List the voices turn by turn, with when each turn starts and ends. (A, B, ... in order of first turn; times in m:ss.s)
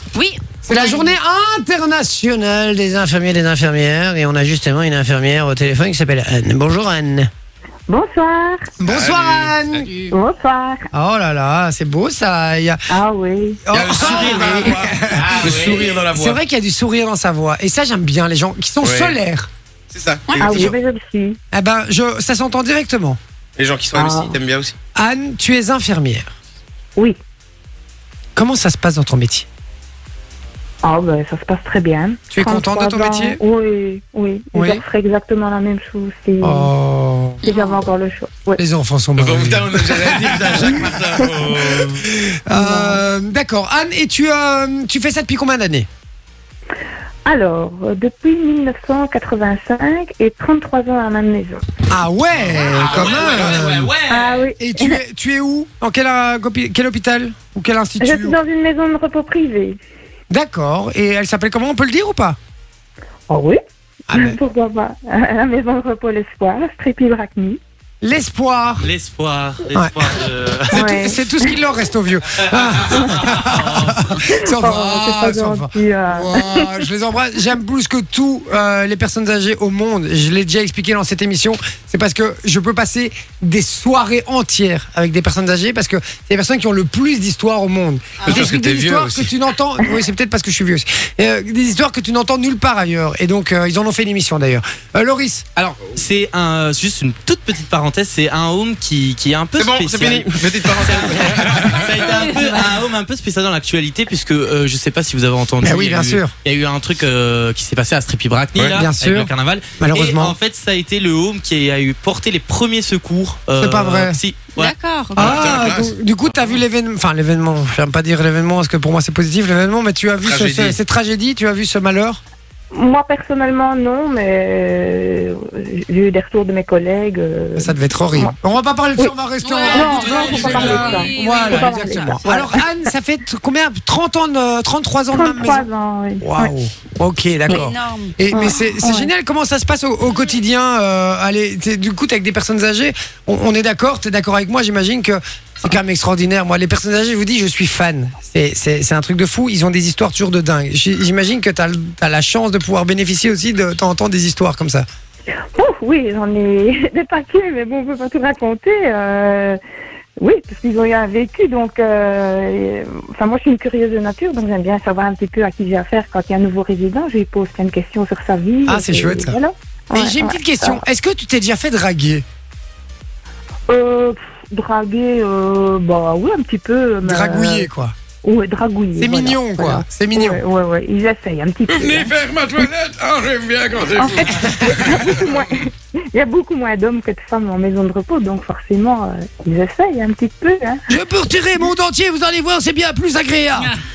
0:00.2-0:01.2 A
0:00.6-0:07.3 B
0:07.9-0:08.7 C
0:08.8-0:09.9 B
0:08.9-0:09.6 D
0:09.8-0:10.2 A
0:10.1-0:10.8 C
0:10.9-0:12.8 B
0:12.9-0:13.6 C
0:13.7-0:19.5 B
0:13.7-0:16.4 D
0:13.8-0:15.8 E
0:18.8-0:19.2 D
0:19.9-0:20.7 D
0:20.3-0:20.6 A
0:20.4-0:21.4 C
0:21.5-0:23.2 B
0:23.6-0:24.8 D
0:23.9-0:24.4 C
0:25.0-0:26.3 B
0:28.4-0:29.5 B
0:30.8-0:36.7 C
0:32.3-0:33.4 B
0:34.5-0:34.8 B
0:36.4-0:37.4 B
0:37.4-0:37.8 A
0:37.4-0:38.6 C
0:38.6-0:45.9 B
0:39.2-0:42.0 D
0:41.0-0:41.6 C
0:42.5-0:43.0 C
0:47.3-0:51.7 C
0:51.9-0:53.9 B
0:52.4-0:54.5 E
0:54.1-0:55.0 C
0:54.6-0:58.4 B
0:58.0-0:59.8 C
1:00.3-1:02.4 B
1:03.3-1:03.6 C
1:04.1-1:04.4 B
1:04.1-1:07.6 C
1:08.0-1:08.9 B
1:08.8-1:11.0 E
1:09.7-1:10.0 B
1:10.7-1:11.6 C
1:10.7-1:35.4 B
1:12.6-1:14.2 E
1:12.9-1:13.3 C
1:14.2-1:16.7 C
1:28.2-1:29.3 D
1:35.6-1:54.8 E
1:39.6-1:42.0 D
1:42.0-1:42.8 A
1:45.6-1:46.3 B
1:48.7-1:50.4 B
1:53.6-1:54.2 B
1:54.6-1:55.3 A
1:55.2-1:56.0 D
1:55.2-2:02.2 B
2:00.2-2:00.8 D
2:02.7-2:08.4 C
2:07.6-2:15.7 B
2:09.0-2:12.6 C
2:09.4-2:12.6 A
2:15.1-2:16.5 C
2:16.2-2:34.9 B
2:17.5-2:18.2 A
2:18.3-2:19.1 C
2:35.6-2:39.6 C
2:40.2-2:50.8 C
2:48.7-2:49.4 B
2:49.9-2:52.2 B
2:53.7-2:57.7 C
2:57.0-2:57.9 B
2:58.2-3:02.1 C
2:59.0-3:00.4 B
3:01.7-3:05.0 D
3:04.0-3:10.8 C
3:04.5-3:04.9 B
3:10.9-3:13.8 B